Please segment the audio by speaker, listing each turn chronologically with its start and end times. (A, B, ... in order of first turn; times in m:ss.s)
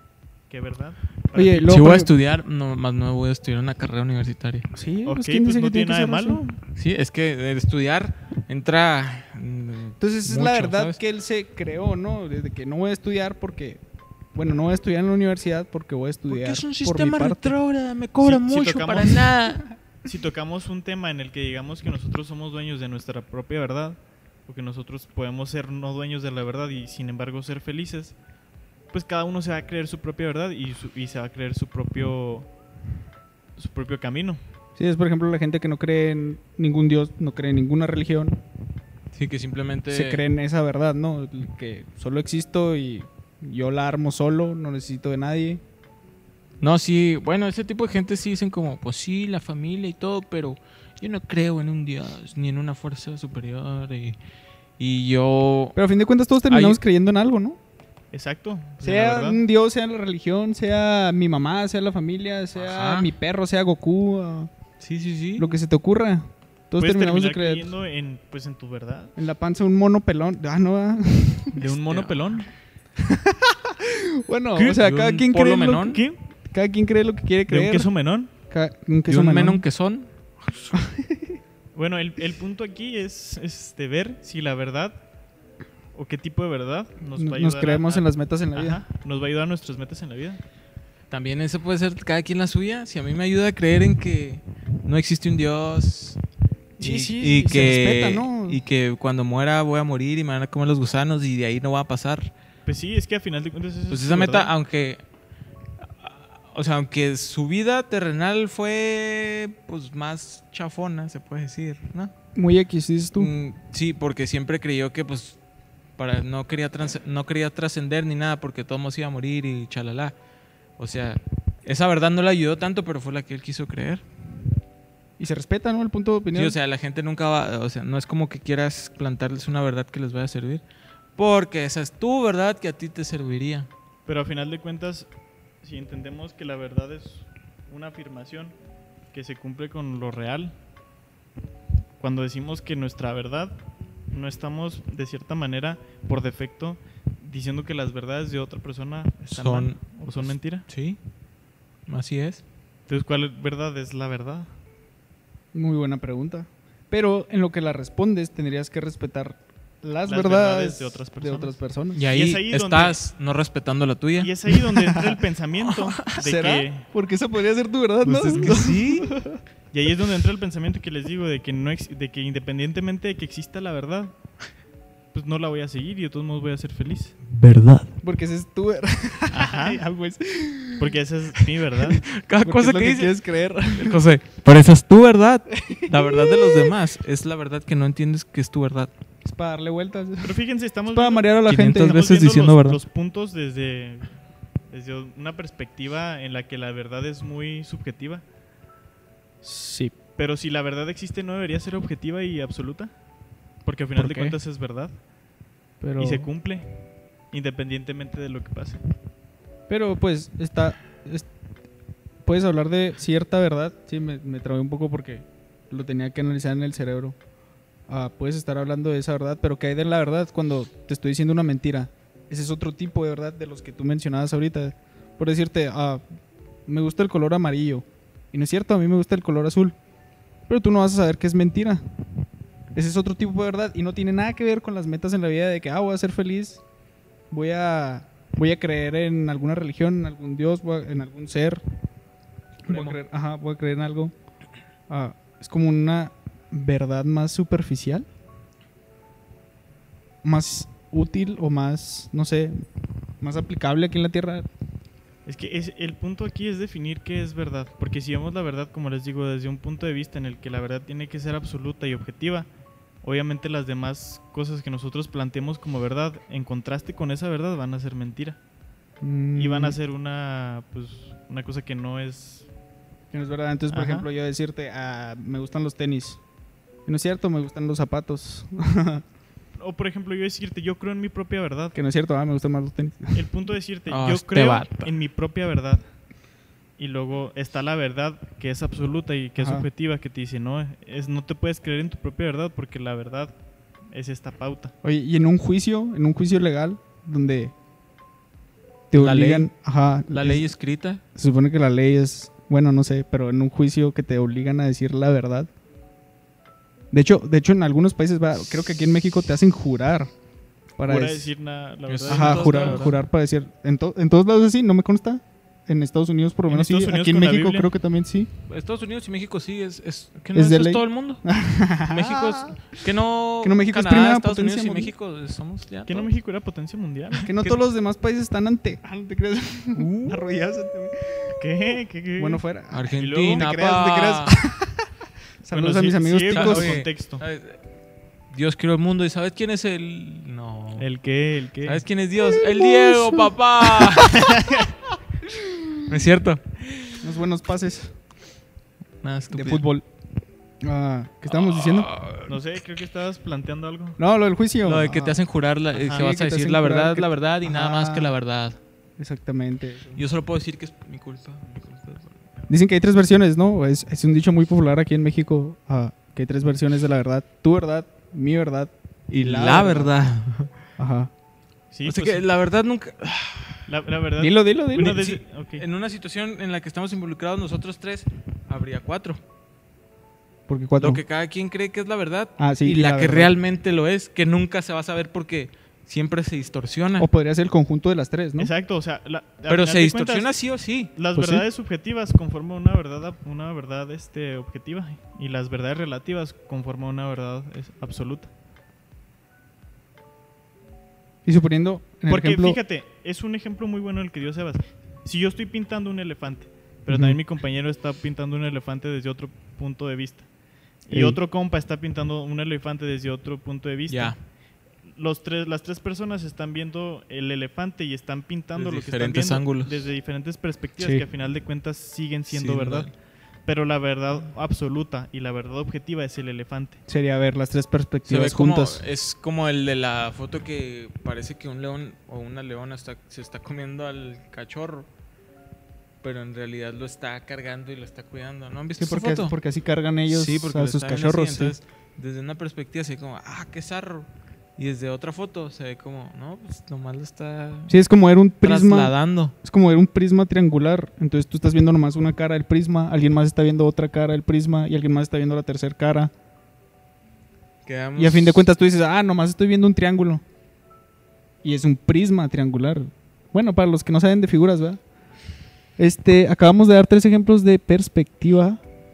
0:00.5-0:01.8 A
0:01.3-0:02.1 B
0:01.6-0:04.7 C
0:04.7-0:06.4 B
0:05.0-0:06.6 A
0:06.8-0:11.0 C
0:10.0-0:13.8 B
0:14.3-0:17.5 B
0:16.3-0:19.7 C
0:18.2-0:19.4 A
0:20.0-0:28.2 A
0:28.9-0:32.5 A
0:33.6-0:34.4 A
0:34.8-0:38.4 B
0:39.1-0:40.2 C
0:39.9-0:45.6 B
0:46.6-0:54.2 C
0:54.8-0:55.8 C
0:55.8-0:57.6 B
0:56.5-0:56.8 C
0:58.1-0:59.4 A
0:58.8-1:04.5 B
1:02.6-1:03.1 C
1:04.8-1:05.5 C
1:05.4-1:07.7 B
1:06.8-1:09.1 A
1:09.2-1:11.6 B
1:11.5-1:12.5 A
1:11.6-1:12.4 C
1:13.0-1:19.6 B
1:14.6-1:16.0 C
1:15.9-1:16.2 A
1:17.5-1:18.3 A
1:19.1-1:20.8 C
1:20.7-1:21.4 B
1:21.8-1:25.0 A
1:25.9-1:30.4 A
1:27.2-1:28.8 B
1:31.1-1:36.2 C
1:36.8-1:42.3 C
1:36.8-1:38.6 B
1:42.6-1:44.5 A
1:43.9-1:45.0 C
1:45.9-1:52.1 C
1:52.3-1:53.3 B
1:53.2-1:55.4 C
1:56.0-2:00.1 C
2:00.8-2:04.0 C
2:05.2-2:06.6 B
2:06.3-2:10.6 C
2:11.2-2:13.7 C
2:14.0-2:15.1 A
2:15.6-2:18.5 A
2:19.1-2:20.5 A
2:22.0-2:23.6 A
2:24.1-2:30.6 A
2:29.3-2:31.0 C
2:31.9-2:32.4 C
2:32.9-2:34.5 A
2:35.5-2:42.0 B
2:40.1-2:43.0 A
2:41.9-2:44.5 C
2:44.2-2:46.9 A
2:45.6-2:46.0 C
2:46.1-2:49.4 B
2:48.0-2:48.6 A
2:48.3-2:49.1 C
2:49.7-2:54.1 A
2:55.1-2:57.2 A
2:57.3-2:57.9 C
2:58.0-3:01.0 B
2:59.3-2:59.8 A
3:00.8-3:02.0 A
3:02.0-3:03.1 C
3:02.4-3:04.0 B
3:03.7-3:08.9 C
3:05.6-3:06.8 B
3:09.2-3:12.2 B
3:10.2-3:14.1 A
3:11.4-3:12.8 C
3:14.7-3:18.2 A
3:19.4-3:19.9 B
3:20.2-3:22.9 A
3:23.6-3:25.0 A
3:24.0-3:24.4 B
3:25.8-3:26.3 B
3:26.0-3:26.7 A
3:27.3-3:28.8 A
3:29.7-3:31.3 B
3:32.2-3:37.1 B
3:37.9-3:46.0 B
3:46.6-3:49.8 B
3:50.5-3:51.8 B
3:52.7-3:56.6 B
3:57.3-4:01.6 B
4:02.6-4:04.1 B
4:02.7-4:03.0 C
4:04.9-4:08.1 B
4:10.2-4:12.6 B
4:13.2-4:14.5 B
4:15.2-4:22.5 A
4:23.0-4:28.4 A
4:29.0-4:29.8 B
4:29.4-4:32.5 A
4:33.1-4:36.2 B
4:33.7-4:34.1 A
4:36.8-4:39.0 B
4:39.6-4:41.8 A
4:41.7-4:43.2 B
4:43.1-4:45.8 A
4:43.9-4:44.9 C
4:46.8-4:53.3 A
4:49.4-4:49.7 B
4:53.9-4:54.7 A
4:54.8-4:57.5 B
4:58.9-5:00.4 B
4:58.9-4:59.5 C
5:00.1-5:01.0 C
5:01.1-5:05.5 B
5:06.9-5:10.1 B
5:10.8-5:11.3 B
5:10.8-5:12.9 A
5:11.9-5:13.0 C
5:12.1-5:18.3 B
5:16.5-5:17.7 A
5:18.5-5:21.2 C
5:20.3-5:22.8 B
5:21.9-5:26.1 C
5:23.4-5:24.9 B
5:25.9-5:27.6 A
5:27.2-5:31.4 B
5:29.8-5:30.2 C
5:31.4-5:32.4 A
5:32.2-5:34.9 B
5:32.7-5:34.4 C
5:32.9-5:33.5 A
5:35.4-5:36.7 B
5:35.5-5:37.2 A
5:36.3-5:37.6 C
5:38.3-5:40.8 C
5:40.8-5:41.8 A
5:41.6-5:44.2 C
5:42.3-5:44.2 B
5:44.1-5:44.7 A
5:45.8-5:47.0 C
5:47.0-5:48.0 B
5:49.0-5:49.6 C
5:49.3-5:49.8 B
5:50.6-5:51.9 B
5:51.3-5:52.3 C
5:52.3-5:54.0 A
5:54.0-5:55.2 B
5:54.6-5:58.6 C
5:55.8-5:56.0 A
5:55.8-5:58.1 B
5:59.0-6:00.0 B
6:00.0-6:02.2 C
6:02.5-6:09.9 B
6:09.1-6:10.5 C
6:10.8-6:11.1 B
6:11.7-6:12.2 A
6:11.8-6:13.6 C
6:13.7-6:15.6 A
6:14.2-6:15.0 B
6:14.8-6:19.2 C
6:20.5-6:21.0 B
6:20.8-6:27.1 C
6:22.4-6:23.3 B
6:27.0-6:28.5 B
6:28.4-6:30.3 A
6:29.5-6:30.9 C
6:30.9-6:38.3 A
6:31.1-6:31.5 B
6:41.2-6:42.6 B
6:42.1-6:50.3 A
6:46.9-6:47.2 B
6:50.8-6:54.2 A
6:50.9-6:51.2 B
6:53.9-6:54.2 C
6:54.8-7:02.9 A
6:58.5-6:59.9 C
7:00.8-7:01.0 B
7:02.3-7:02.9 C
7:03.4-7:06.8 A
7:06.9-7:08.8 B
7:08.0-7:14.9 C
7:16.0-7:19.3 C
7:18.8-7:21.6 B
7:20.1-7:27.8 C
7:27.7-7:36.1 B
7:28.4-7:29.3 C
7:37.6-7:38.4 C
7:38.0-7:40.2 B
7:41.4-7:44.8 B
7:45.8-7:48.6 B